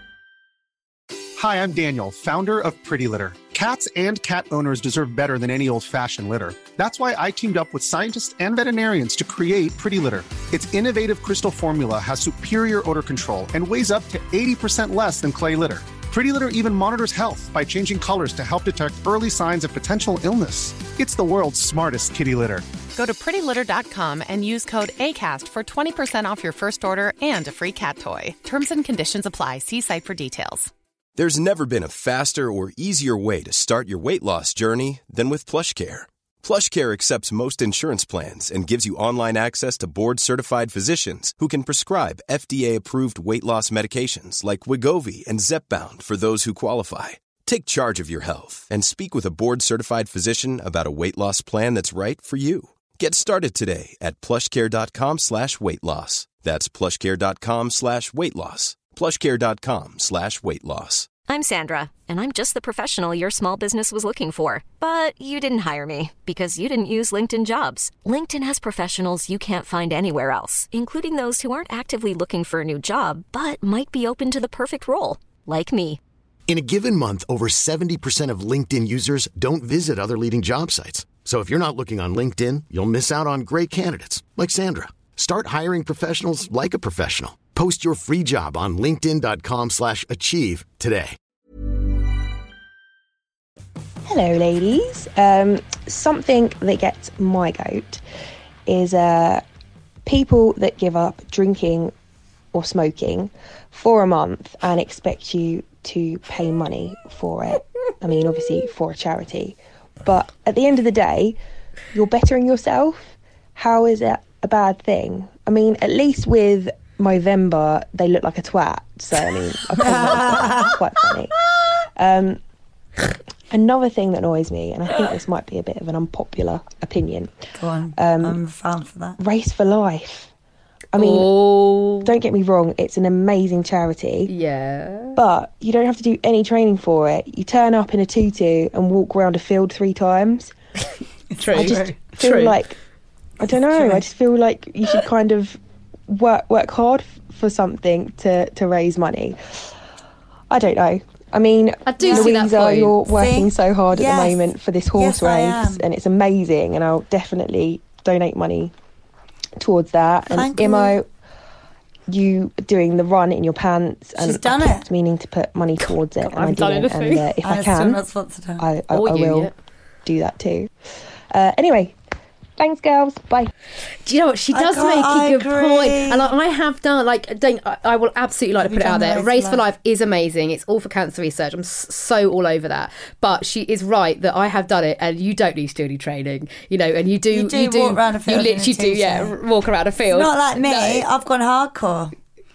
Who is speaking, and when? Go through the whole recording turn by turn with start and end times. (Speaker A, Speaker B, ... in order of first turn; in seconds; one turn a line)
Speaker A: 1.4-22.7
Speaker B: 22.9-30.7
Speaker C: 31.1-61.1
Speaker D: 61.3-76.0
Speaker E: 76.5-91.2
Speaker F: 94.0-98.0
Speaker F: 98.7-99.4
Speaker F: 100.0-101.9
Speaker F: 102.5-111.4
Speaker F: 111.9-121.4
Speaker G: 119.8-120.7
Speaker F: 122.0-122.4
Speaker F: 123.5-127.3
Speaker G: 127.5-129.2
Speaker F: 128.0-128.4
Speaker F: 129.2-130.3
Speaker F: 130.9-131.5
Speaker H: 130.9-132.1
Speaker F: 132.0-134.3
Speaker H: 134.3-135.2
Speaker F: 135.1-140.5
Speaker H: 141.4-142.6
Speaker G: 141.5-141.9
Speaker F: 141.5-142.8
Speaker F: 143.4-149.6
Speaker F: 150.5-158.7
Speaker H: 151.8-153.0
Speaker G: 152.0-152.3
Speaker G: 153.1-155.8
Speaker F: 159.6-161.1
Speaker G: 160.3-161.0
Speaker F: 162.1-168.0
Speaker G: 164.2-164.8
Speaker H: 166.2-167.2
Speaker G: 167.4-168.6
Speaker F: 168.6-169.5
Speaker H: 168.9-169.5
Speaker F: 170.0-170.7
Speaker F: 171.3-172.0
Speaker F: 172.6-173.5
Speaker H: 174.0-191.1
Speaker G: 174.5-176.3
Speaker G: 178.6-179.6
Speaker G: 187.3-189.3
Speaker G: 190.1-192.1